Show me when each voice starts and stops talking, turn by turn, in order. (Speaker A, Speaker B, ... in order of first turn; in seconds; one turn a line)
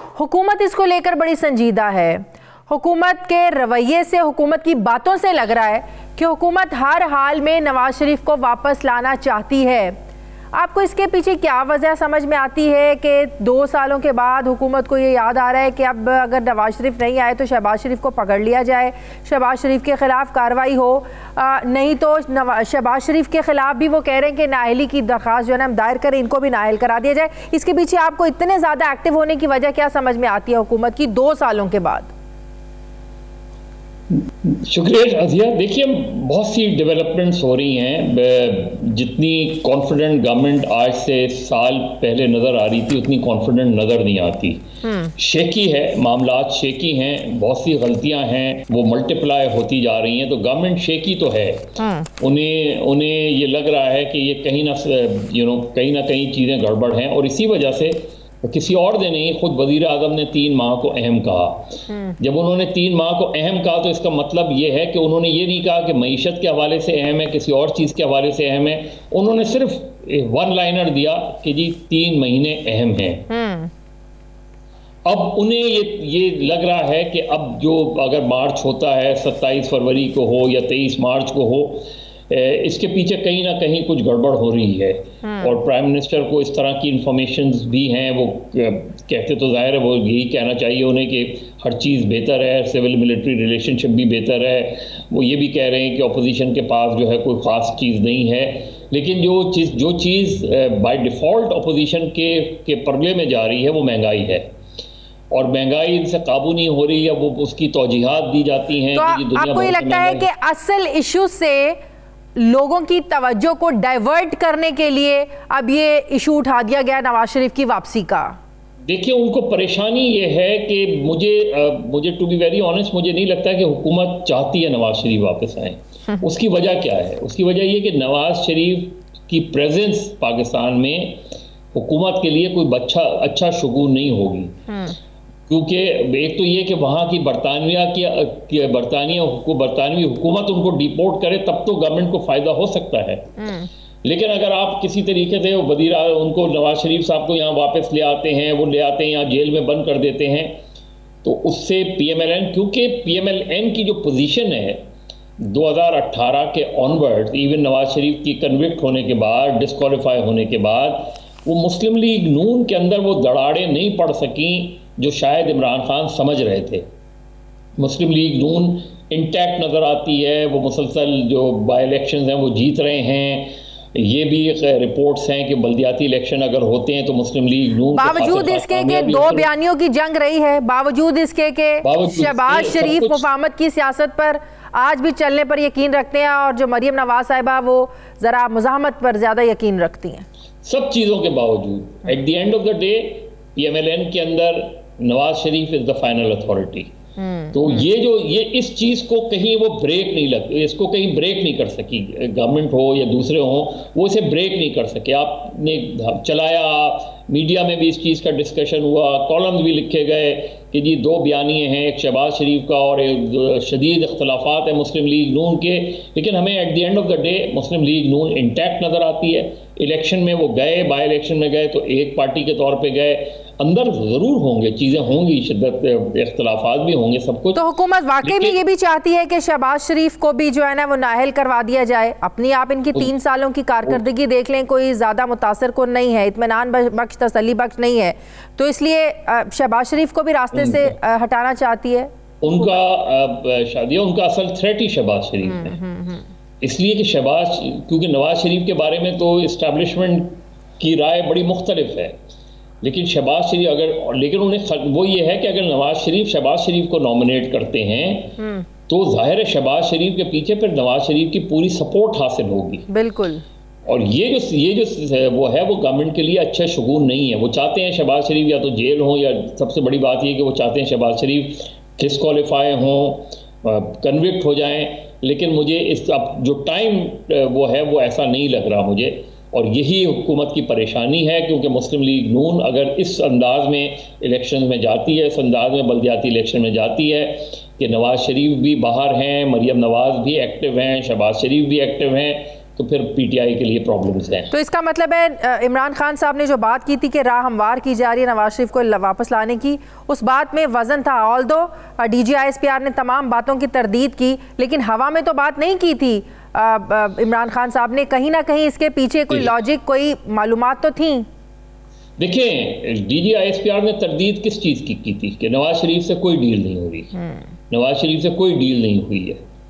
Speaker A: 0.2-9.9
Speaker A: 10.5-32.1
Speaker B: 34.1-44.6
Speaker A: 44.8-45.1
Speaker B: 45.2-73.3
Speaker A: 51.8-52.1
Speaker A: 61.9-62.2
Speaker A: 73.3-73.7
Speaker B: 75.0-104.5
Speaker A: 85.2-85.5
Speaker B: 105.3-110.3
Speaker A: 108.9-111.8
Speaker A: 112.3-118.3
Speaker B: 118.8-134.5
Speaker A: 134.7-135.0
Speaker B: 135.5-143.3
Speaker A: 143.4-143.7
Speaker B: 144.0-150.6
Speaker B: 151.2-154.8
Speaker B: 155.4-166.8
Speaker B: 167.8-179.5
Speaker A: 177.9-190.3
Speaker B: 181.8-183.3
Speaker B: 190.6-196.9
Speaker A: 197.2-197.8
Speaker B: 197.5-227.6
Speaker A: 227.5-242.8
Speaker B: 228.2-228.6
Speaker B: 240.5-240.9
Speaker B: 242.4-245.8
Speaker A: 245.4-246.3
Speaker B: 246.6-252.2
Speaker B: 252.8-258.4
Speaker A: 258.4-258.6
Speaker B: 258.9-262.9
Speaker A: 262.9-263.4
Speaker B: 263.9-294.5
Speaker A: 294.5-311.2
Speaker B: 312.2-317.1
Speaker A: 317.1-317.5
Speaker B: 317.7-319.4